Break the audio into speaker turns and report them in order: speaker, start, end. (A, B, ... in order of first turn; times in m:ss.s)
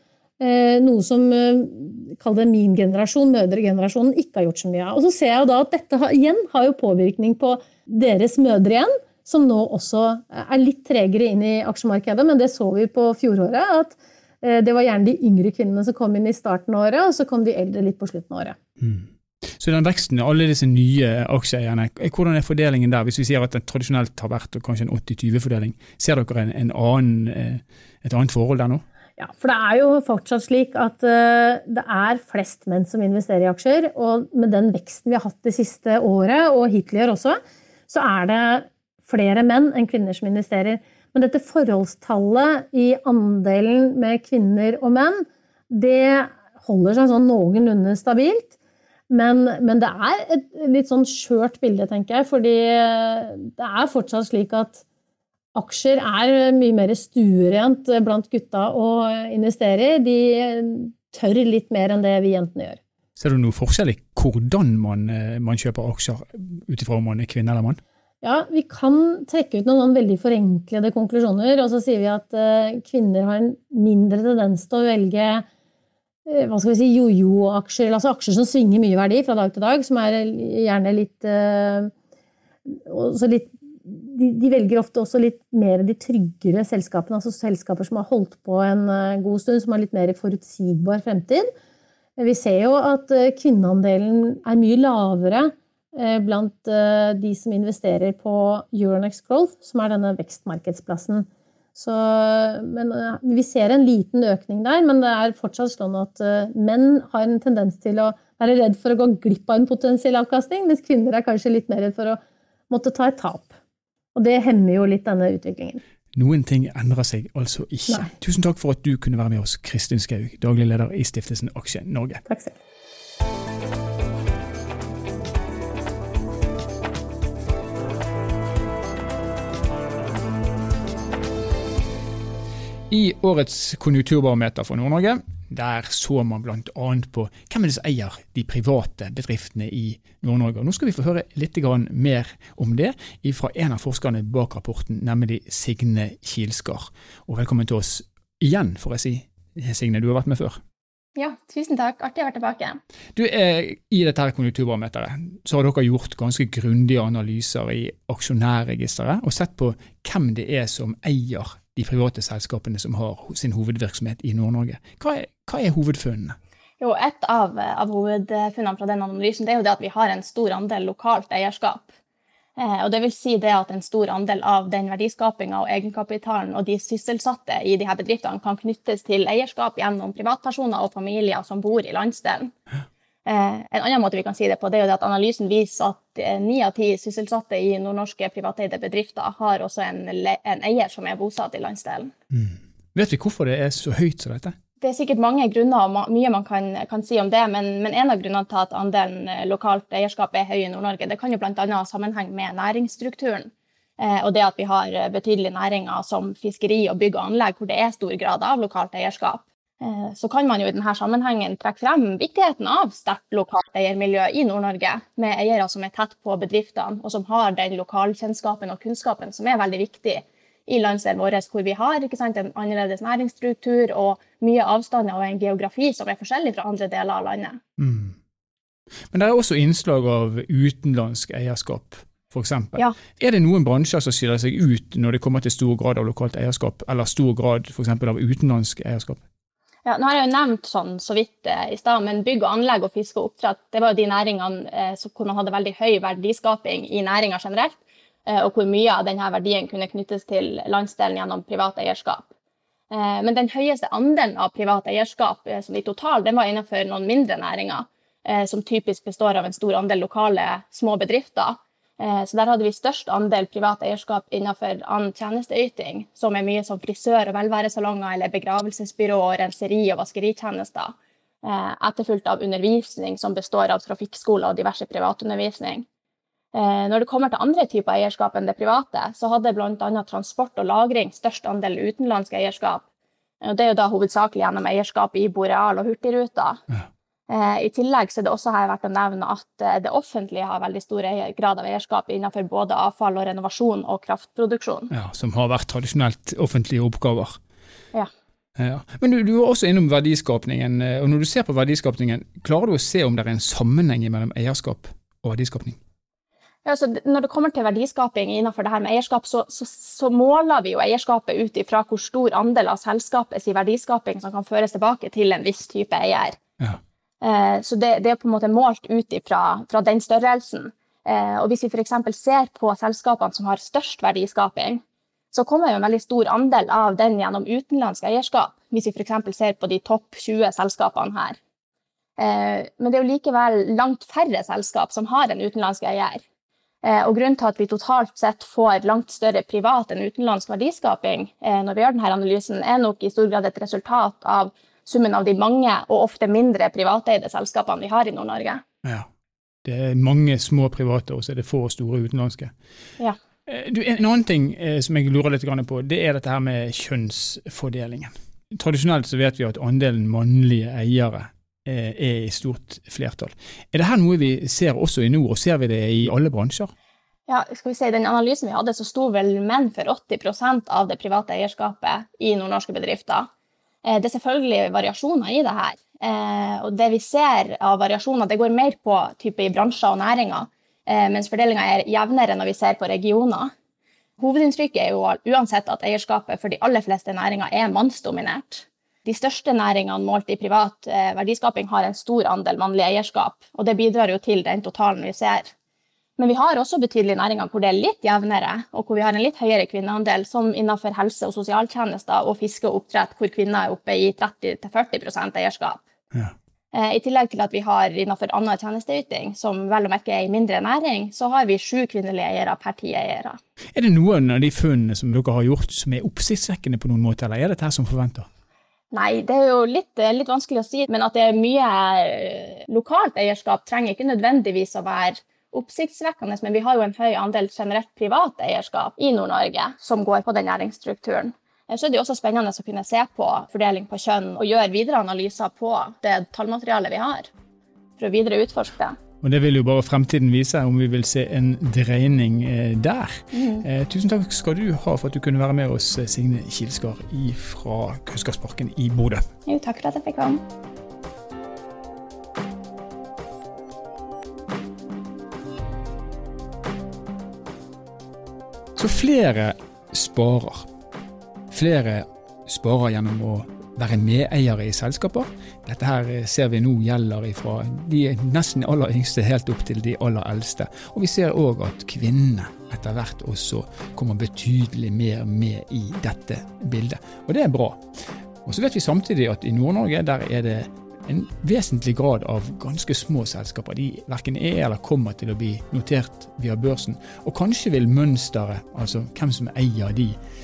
0:00.4-0:18.6 A
0:18.8-0:28.8 B
0:29.2-0:37.4 A
0:37.9-0:48.5 A
0:49.1-0:54.8 A
0:55.5-1:02.8 A
1:03.2-1:07.8 B
1:08.2-1:15.4 A
1:16.2-1:21.9 A
1:22.7-1:31.5 A
1:32.2-1:53.5 A
1:54.1-1:55.8 A
1:56.1-2:02.2 B
2:02.3-2:02.6 A
2:12.9-2:30.6 B
2:31.2-2:32.8 C
2:33.2-2:46.4 B
2:46.8-2:51.9 C
2:52.6-3:02.5 C
3:03.2-3:12.1 C
3:12.3-3:14.5 B
3:14.8-3:47.6 C
3:47.8-3:48.2 B
3:49.1-3:59.2 B
3:59.8-4:12.3 C
4:12.9-4:35.8 C
4:36.5-4:42.8 C
4:43.4-4:46.6 C
4:47.3-4:54.9 C
4:54.9-4:57.4 B
4:58.6-5:05.8 B
5:06.6-5:16.4 C
5:17.2-5:31.4 C
5:32.2-5:36.2 C
5:36.8-5:48.6 C
5:49.6-5:52.5 B
5:53.5-6:06.7 B
6:07.3-6:13.3 C
6:13.8-6:23.5 C
6:24.2-6:35.5 C
6:36.2-6:45.8 C
6:46.7-6:53.4 C
6:53.7-6:58.3 B
6:58.9-7:17.3 C
7:18.0-7:19.0 C
7:19.2-7:29.2 B
7:23.3-7:23.6 C
7:29.4-7:30.4 C
7:38.8-7:40.7 B
7:41.5-7:57.8 B
7:58.4-8:10.2 B